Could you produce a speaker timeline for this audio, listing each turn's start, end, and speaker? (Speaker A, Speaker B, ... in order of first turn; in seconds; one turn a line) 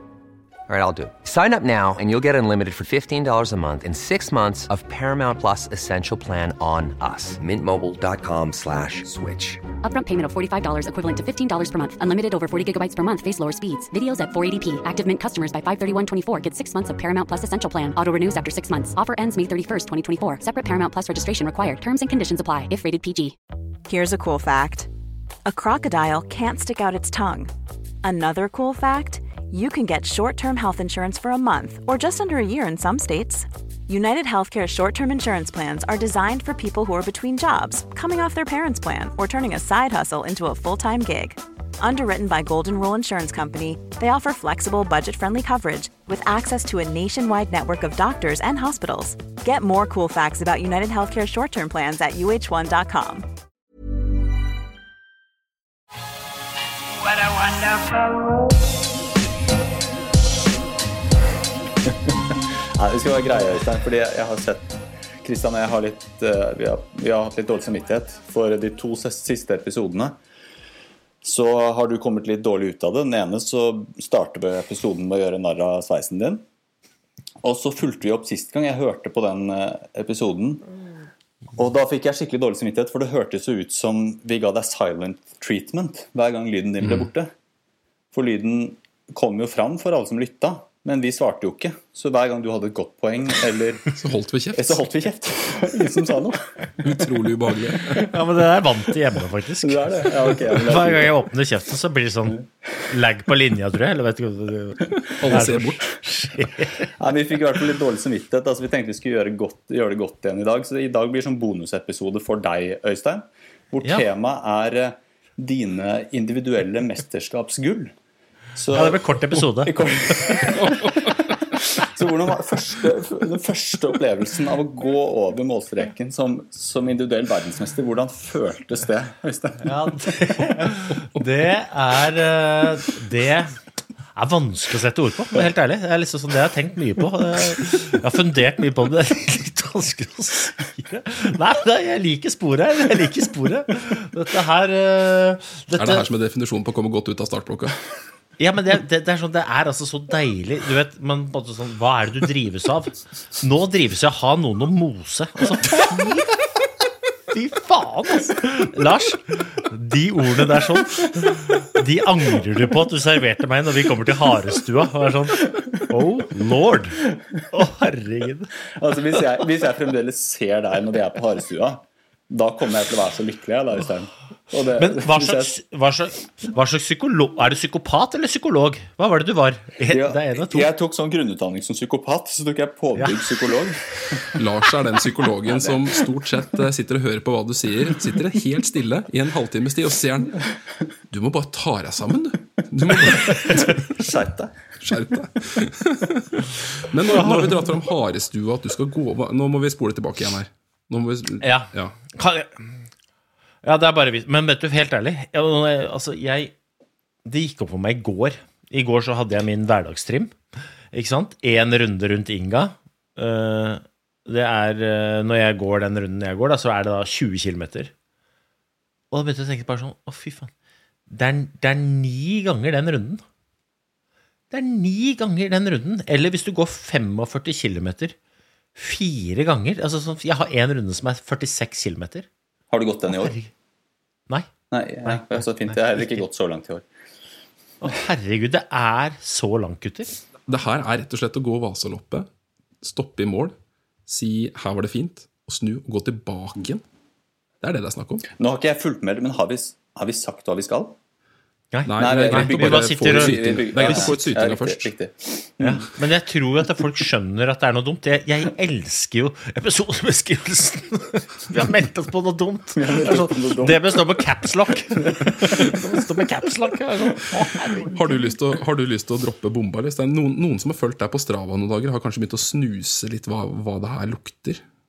Speaker A: 0.7-9.6
Speaker B: 9.8-23.3
Speaker C: 23.9-24.9
Speaker C: 25.4-27.5
Speaker C: 28.0-53.3
Speaker D: 61.9-70.1
Speaker D: 71.2-76.4
Speaker D: 77.4-80.6
Speaker D: 81.5-87.3
Speaker E: 86.8-87.1
Speaker D: 88.1-93.9
Speaker E: 94.0-94.9
Speaker D: 94.5-96.8
Speaker E: 96.8-98.1
Speaker F: 98.0-106.9
Speaker D: 99.6-101.2
Speaker E: 105.2-105.9
Speaker D: 107.0-117.9
Speaker D: 118.5-130.1
Speaker F: 118.7-120.5
Speaker E: 120.6-121.3
Speaker F: 129.6-133.6
Speaker E: 130.9-131.2
Speaker F: 134.1-146.1
Speaker E: 145.8-147.8
Speaker F: 148.4-156.4
Speaker F: 157.3-168.5
Speaker D: 168.8-175.6
Speaker F: 174.8-180.7
Speaker D: 179.9-184.4
Speaker E: 184.3-190.4
Speaker D: 185.4-186.1
Speaker E: 191.1-193.9
Speaker D: 193.0-194.6
Speaker E: 194.8-201.9
Speaker F: 197.1-197.5
Speaker F: 201.4-202.8
Speaker F: 203.6-206.5
Speaker F: 207.2-210.4
Speaker F: 210.9-217.9
Speaker F: 219.1-220.5
Speaker F: 221.1-223.2
Speaker F: 224.5-228.1
Speaker F: 228.8-232.3
Speaker D: 232.7-233.3
Speaker F: 233.1-233.5
Speaker D: 234.7-236.8
Speaker F: 235.0-236.2
Speaker F: 237.8-240.2
Speaker E: 240.5-242.3
Speaker E: 242.8-243.5
Speaker E: 244.1-246.8
Speaker E: 247.6-248.2
Speaker D: 248.4-250.9
Speaker F: 251.7-254.1
Speaker E: 251.8-254.9
Speaker D: 252.0-255.8
Speaker F: 255.6-267.9
Speaker D: 262.8-264.2
Speaker D: 265.0-265.7
Speaker E: 267.9-274.6